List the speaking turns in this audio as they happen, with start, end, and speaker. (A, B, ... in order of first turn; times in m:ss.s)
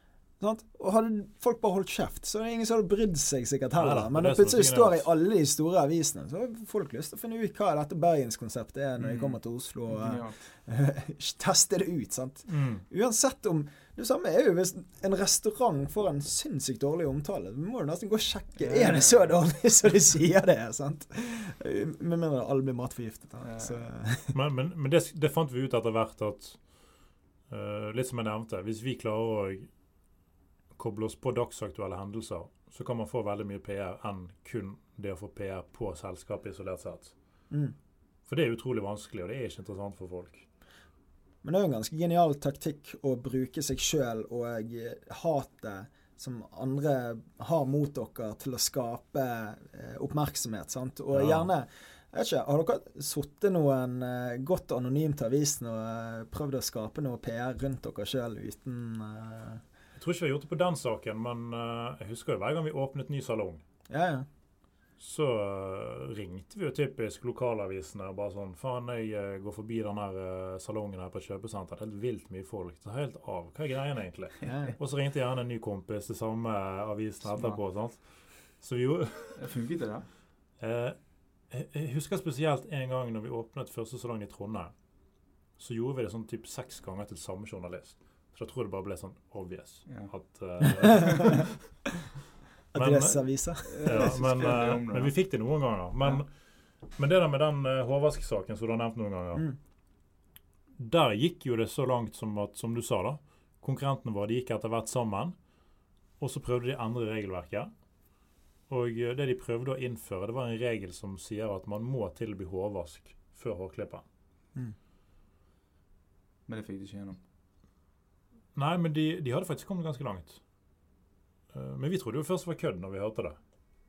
0:00.4-0:24.4 A
0:03.8-0:05.0 B
0:09.0-0:10.4 C
0:12.5-0:12.8 B
0:18.6-0:19.3 C
0:23.4-0:23.9 C
0:24.3-0:26.6 B
0:27.5-0:29.7 B
0:30.7-0:37.1 B
0:38.3-0:40.4 B
0:41.4-0:59.6 A
0:51.1-0:51.5 B
0:59.9-1:03.6 B
1:03.9-1:04.3 A
1:05.0-1:19.5 B
1:14.4-1:14.7 C
1:14.4-1:14.7 A
1:17.3-1:17.6 C
1:19.4-1:20.0 C
1:20.6-1:24.7 B
1:25.6-1:31.7 B
1:29.8-1:30.1 C
1:30.6-1:31.4 A
1:32.7-1:34.1 A
1:32.7-1:36.3 B
1:33.6-1:35.2 C
1:36.9-1:39.5 B
1:40.8-1:45.4 B
1:46.2-1:47.7 B
1:48.7-1:54.0 B
1:56.4-1:57.2 C
1:58.5-2:00.4 B
2:01.5-2:03.4 B